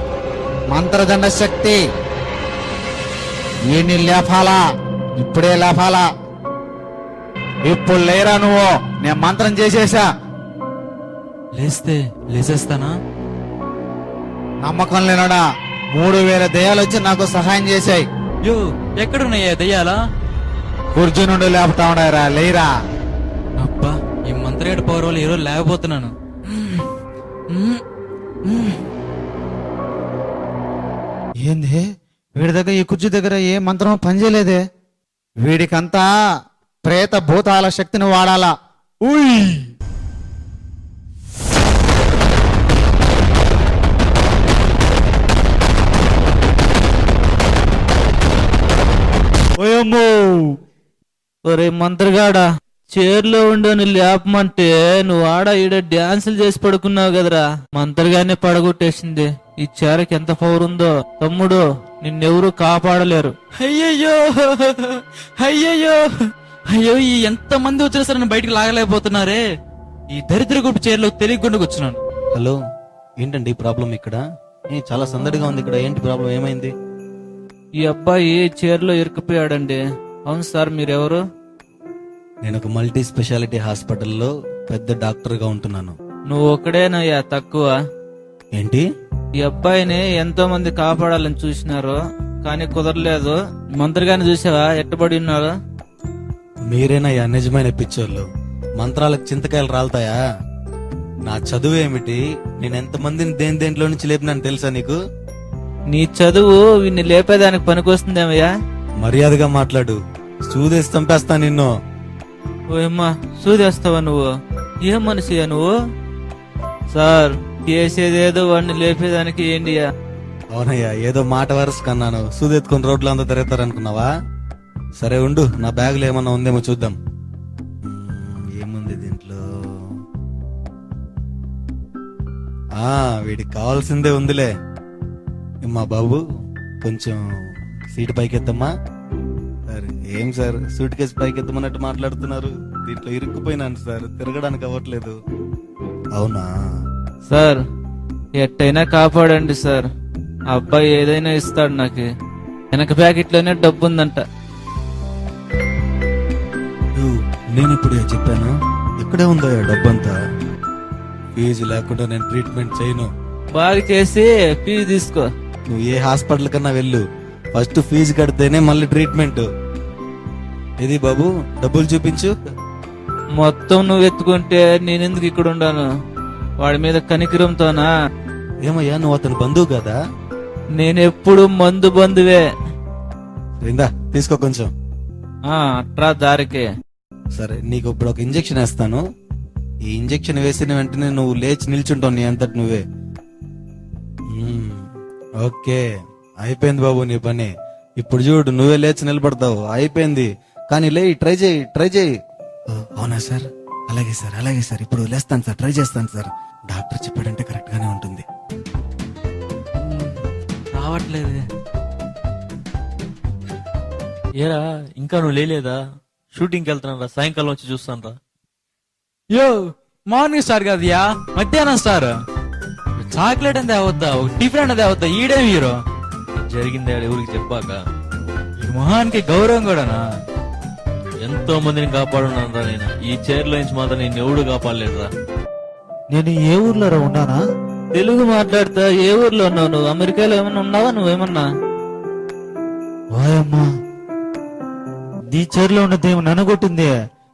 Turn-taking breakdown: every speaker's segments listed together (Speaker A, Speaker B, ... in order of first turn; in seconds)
Speaker A: 0.7-1.8, 3.7-4.6, 5.2-6.1, 7.7-10.1, 14.6-18.1, 20.9-22.7, 31.4-31.9, 32.4-34.6, 35.4-36.1, 36.8-39.7, 49.6-50.6, 236.1-237.4, 243.1-243.6, 245.3-246.9
Speaker B: 11.6-12.9, 18.4-20.0, 23.6-26.9, 27.5-27.8, 28.4-28.9, 63.6-69.4, 70.1-72.0, 209.8-210.2, 210.7-211.4, 219.3-222.1, 223.0-225.8, 228.6-230.0
Speaker C: 51.5-63.3, 77.8-81.2, 86.3-87.7, 89.4-95.5, 105.9-108.5, 112.7-114.2, 114.9-115.7, 116.9-119.8, 147.3-147.6, 148.4-149.9, 150.5-152.1, 152.7-154.2, 163.6-165.2, 173.4-175.8, 176.6-177.9, 180.8-182.4, 185.5-186.7, 237.9-241.5
Speaker D: 73.2-76.7, 82.4-86.0, 88.6-88.8, 96.7-98.3, 98.8-100.2, 101.2-105.0, 109.0-111.7, 120.5-124.1, 125.0-127.0, 127.8-129.4, 132.8-134.5, 135.6-136.2, 136.8-137.2, 137.9-138.7, 139.7-145.2, 146.2-146.5, 157.0-160.2, 161.4-163.1, 165.7-167.0, 167.5-169.4, 170.8-172.3, 178.6-180.0, 183.6-184.7, 187.4-189.0, 189.9-192.8, 194.3-194.8, 195.4-195.8, 196.4-202.1, 203.0-208.2
Speaker E: 214.4-215.8, 216.3-218.1, 226.4-227.8, 231.2-235.1